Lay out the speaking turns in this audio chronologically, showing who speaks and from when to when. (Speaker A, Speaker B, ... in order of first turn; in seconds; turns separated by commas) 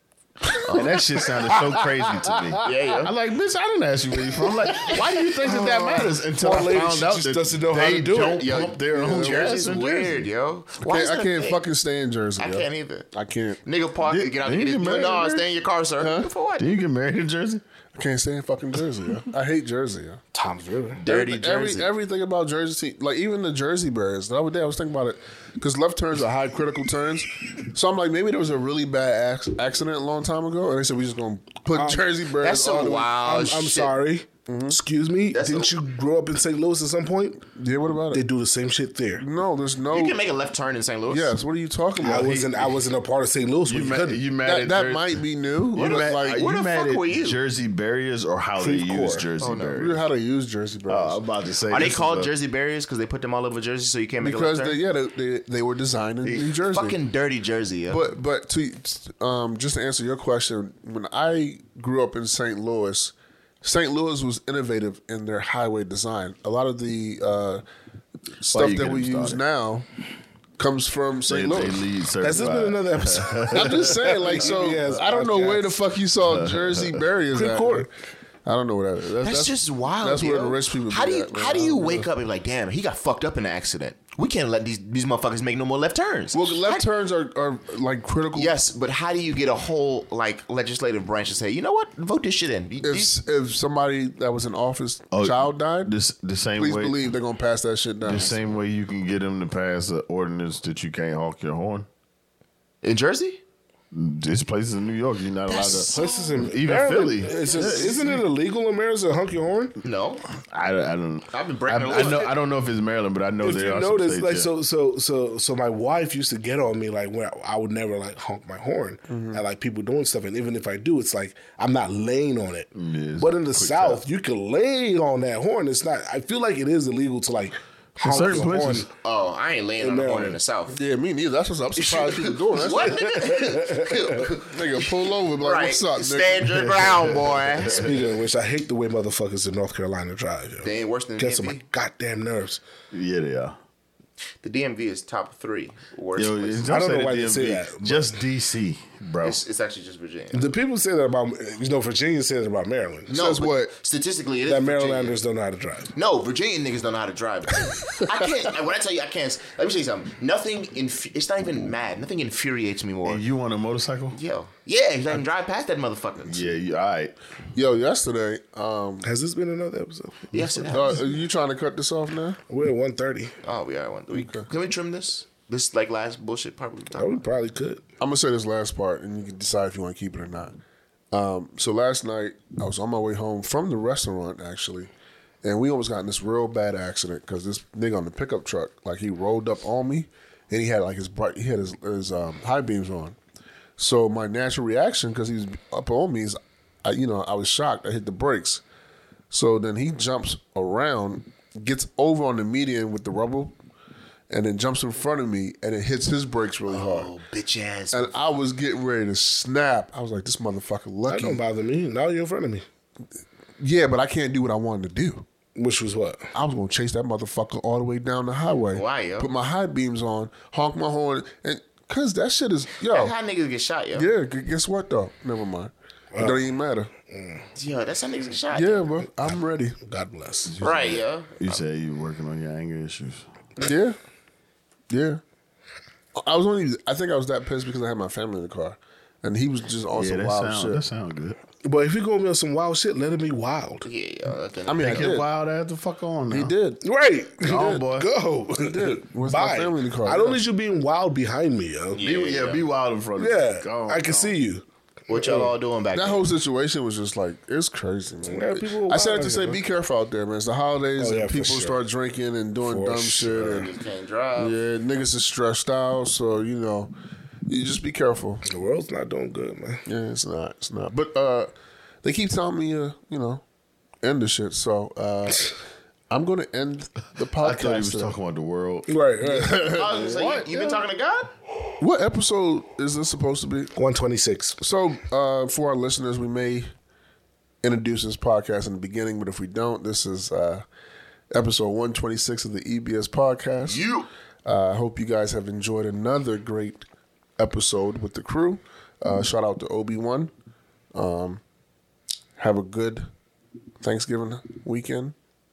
Speaker A: 0.6-10.3, Speaker B: 0.6-1.2, Speaker C: 1.5-1.8, Speaker C: 2.3-2.7, Speaker B: 2.6-3.1, Speaker B: 4.8-7.0, Speaker C: 5.4-8.7, Speaker B: 8.0-11.6, Speaker D: 8.9-9.6, Speaker D: 10.8-13.6, Speaker B: 12.4-13.1, Speaker B: 13.6-16.7, Speaker A: 14.1-15.5, Speaker D: 16.0-16.3, Speaker A: 16.6-17.6, Speaker D: 17.9-20.2, Speaker C: 20.3-21.0, Speaker B: 21.0-21.9, Speaker D: 21.1-33.2, Speaker C: 31.7-32.0, Speaker B: 32.4-33.9, Speaker C: 33.2-37.4, Speaker D: 34.5-34.8, Speaker B: 35.3-35.7, Speaker D: 37.5-38.2, Speaker C: 38.1-39.2, Speaker D: 39.2-40.2, Speaker B: 39.9-41.4, Speaker D: 41.1-42.3, Speaker A: 42.0-42.7, Speaker C: 42.0-44.2, Speaker A: 43.6-50.0, Speaker D: 44.4-46.4, Speaker B: 45.8-47.4, Speaker C: 48.6-49.3, Speaker B: 49.4-49.7, Speaker D: 49.6-51.2, Speaker A: 50.9-52.3, Speaker B: 51.7-54.8, Speaker D: 54.2-57.0, Speaker A: 56.2-56.5, Speaker B: 56.6-58.0, Speaker D: 57.9-67.6, Speaker D: 68.4-69.8, Speaker A: 68.5-69.4, Speaker D: 70.6-71.8, Speaker A: 71.3-74.1, Speaker C: 72.2-75.9, Speaker D: 73.5-77.9, Speaker A: 76.2-77.0, Speaker C: 77.3-77.9, Speaker D: 78.4-82.0, Speaker B: 79.2-86.8, Speaker D: 86.3-88.5, Speaker B: 88.3-93.2, Speaker D: 92.8-95.9, Speaker A: 95.1-97.1, Speaker D: 96.6-98.3, Speaker A: 98.0-101.9, Speaker B: 98.1-98.4, Speaker B: 102.8-103.4, Speaker A: 103.9-108.2, Speaker B: 105.5-106.5, Speaker C: 105.6-109.8, Speaker B: 107.2-108.0, Speaker B: 109.8-110.2, Speaker A: 110.5-114.5, Speaker B: 111.3-112.3, Speaker C: 113.4-128.9, Speaker D: 119.1-119.4, Speaker A: 122.7-124.0, Speaker A: 128.0-128.9, Speaker B: 129.0-130.8, Speaker C: 129.8-130.4, Speaker D: 130.7-133.2, Speaker B: 131.8-138.0, Speaker C: 132.9-134.3, Speaker D: 134.4-137.2, Speaker A: 137.2-137.8, Speaker C: 137.6-142.6, Speaker B: 140.6-141.6, Speaker A: 142.9-143.5, Speaker B: 144.4-146.7, Speaker A: 146.2-149.4, Speaker C: 146.7-148.2, Speaker B: 149.2-150.4, Speaker C: 150.3-153.1, Speaker D: 153.1-153.7, Speaker B: 153.1-155.2, Speaker C: 154.5-155.9, Speaker B: 155.9-163.2, Speaker A: 163.0-164.2, Speaker B: 164.1-166.5, Speaker A: 166.2-167.1, Speaker D: 167.5-169.1, Speaker C: 169.0-171.0, Speaker B: 170.3-171.1, Speaker D: 170.7-172.4, Speaker C: 172.5-173.3, Speaker B: 173.4-177.2, Speaker D: 174.1-174.5, Speaker C: 176.9-177.8, Speaker D: 178.0-180.6, Speaker D: 181.1-184.9, Speaker D: 185.4-193.2, Speaker D: 193.8-198.6, Speaker D: 199.3-203.5, Speaker D: 204.3-207.1, Speaker B: 206.7-208.2, Speaker D: 207.9-211.4, Speaker C: 211.1-212.6, Speaker D: 213.6-215.2, Speaker C: 215.6-216.3, Speaker D: 216.3-223.1, Speaker B: 218.7-219.3, Speaker B: 222.8-224.1, Speaker D: 223.9-226.9, Speaker C: 226.1-226.4, Speaker C: 227.1-227.4, Speaker B: 227.5-228.9, Speaker D: 228.5-229.8, Speaker C: 229.8-230.5, Speaker A: 230.4-233.2, Speaker B: 230.6-231.6, Speaker D: 233.6-234.0, Speaker D: 234.9-235.2, Speaker D: 236.2-240.8, Speaker A: 239.9-241.4, Speaker C: 241.6-243.8, Speaker B: 243.8-245.2, Speaker D: 244.7-245.3, Speaker A: 244.8-246.5, Speaker D: 246.3-246.8, Speaker C: 246.8-252.0, Speaker A: 247.4-248.1, Speaker D: 248.6-250.4, Speaker B: 251.9-252.6, Speaker A: 252.0-254.4, Speaker C: 253.2-254.6, Speaker B: 255.1-256.3, Speaker D: 255.9-263.7, Speaker C: 258.2-259.6, Speaker C: 261.0-261.8, Speaker C: 262.6-263.5, Speaker B: 263.3-264.6, Speaker D: 264.4-266.9, Speaker D: 267.5-268.4, Speaker C: 268.4-269.8, Speaker D: 269.9-271.5, Speaker D: 272.0-273.4, Speaker D: 274.0-275.6, Speaker D: 276.1-278.2, Speaker A: 277.3-278.9, Speaker C: 278.9-280.0, Speaker D: 279.2-280.5, Speaker B: 279.6-281.3, Speaker D: 281.8-283.7, Speaker C: 283.7-284.6, Speaker D: 284.6-286.7, Speaker D: 287.6-290.6, Speaker D: 291.3-293.9, Speaker B: 293.6-294.1, Speaker D: 294.4-296.9, Speaker D: 297.4-300.3, Speaker D: 300.9-301.4, Speaker D: 302.4-303.1, Speaker D: 303.8-305.1